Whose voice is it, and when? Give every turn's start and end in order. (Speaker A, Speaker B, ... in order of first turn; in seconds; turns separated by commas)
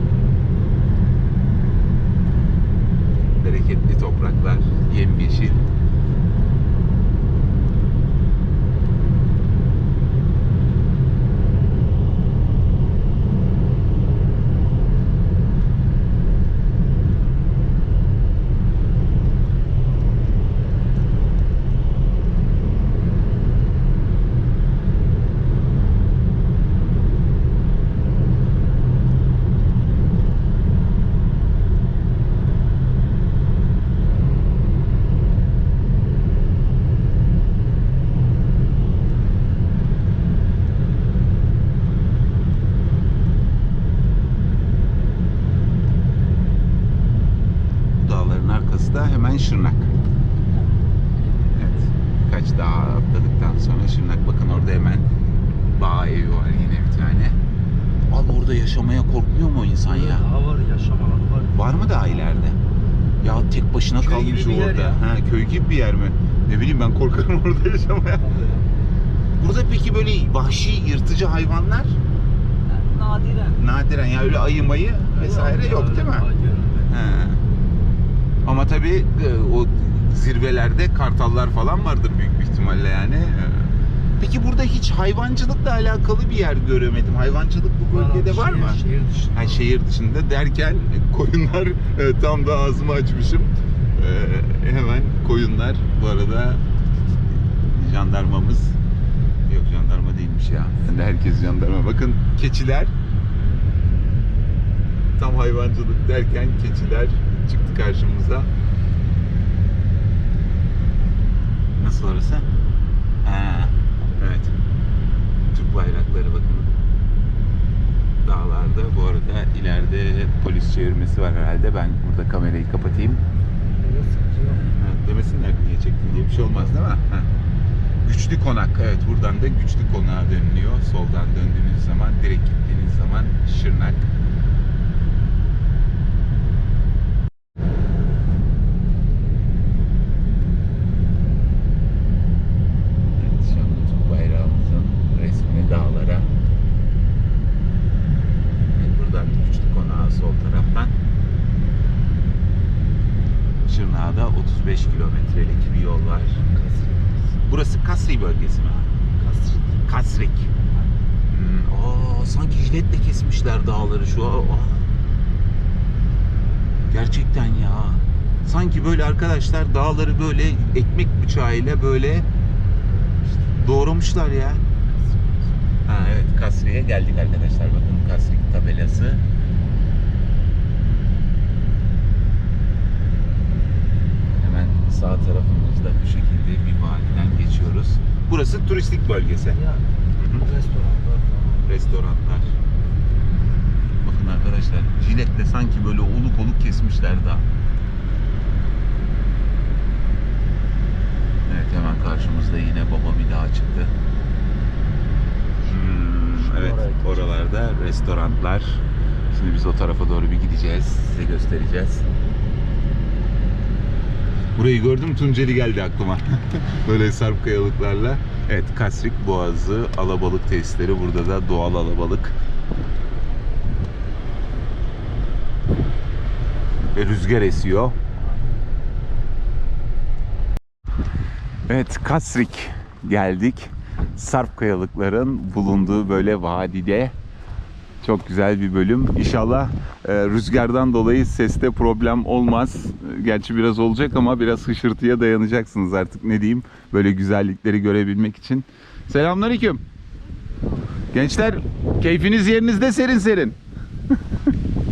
Speaker A: 3.4-5.6, Speaker A: 48.0-49.9, Speaker A: 51.5-55.1, Speaker A: 55.7-57.4, Speaker A: 58.1-60.3, Speaker B: 59.9-62.4, Speaker A: 61.5-62.6, Speaker A: 63.2-68.3, Speaker B: 64.0-65.1, Speaker B: 68.2-68.7, Speaker A: 69.4-72.0, Speaker B: 72.8-73.6, Speaker A: 73.4-76.3, Speaker B: 75.2-77.0, Speaker A: 76.9-77.4, Speaker A: 78.4-88.8, Speaker B: 87.8-89.6, Speaker A: 89.3-96.6, Speaker A: 97.6-98.8, Speaker A: 99.5-102.9, Speaker A: 105.2-108.5, Speaker A: 111.8-112.5, Speaker A: 113.2-114.5, Speaker A: 115.5-116.7, Speaker A: 118.2-123.2, Speaker B: 123.8-124.6, Speaker A: 124.4-127.3, Speaker A: 128.0-134.1, Speaker A: 143.2-146.3, Speaker A: 148.7-150.9, Speaker A: 153.7-156.4, Speaker B: 156.4-157.2, Speaker A: 157.5-158.9, Speaker B: 159.2-159.8, Speaker A: 159.8-160.5, Speaker A: 161.3-164.9, Speaker A: 166.9-172.2, Speaker A: 173.5-174.7, Speaker A: 175.8-179.2, Speaker A: 184.4-189.6, Speaker B: 189.6-189.8, Speaker A: 190.2-190.5, Speaker B: 190.4-191.7, Speaker A: 191.7-192.5, Speaker A: 194.0-197.4, Speaker A: 201.5-203.9, Speaker A: 205.6-212.1, Speaker B: 206.3-207.2, Speaker A: 214.6-222.3, Speaker A: 226.9-228.0, Speaker A: 231.7-237.1, Speaker A: 238.0-249.8, Speaker A: 251.1-253.6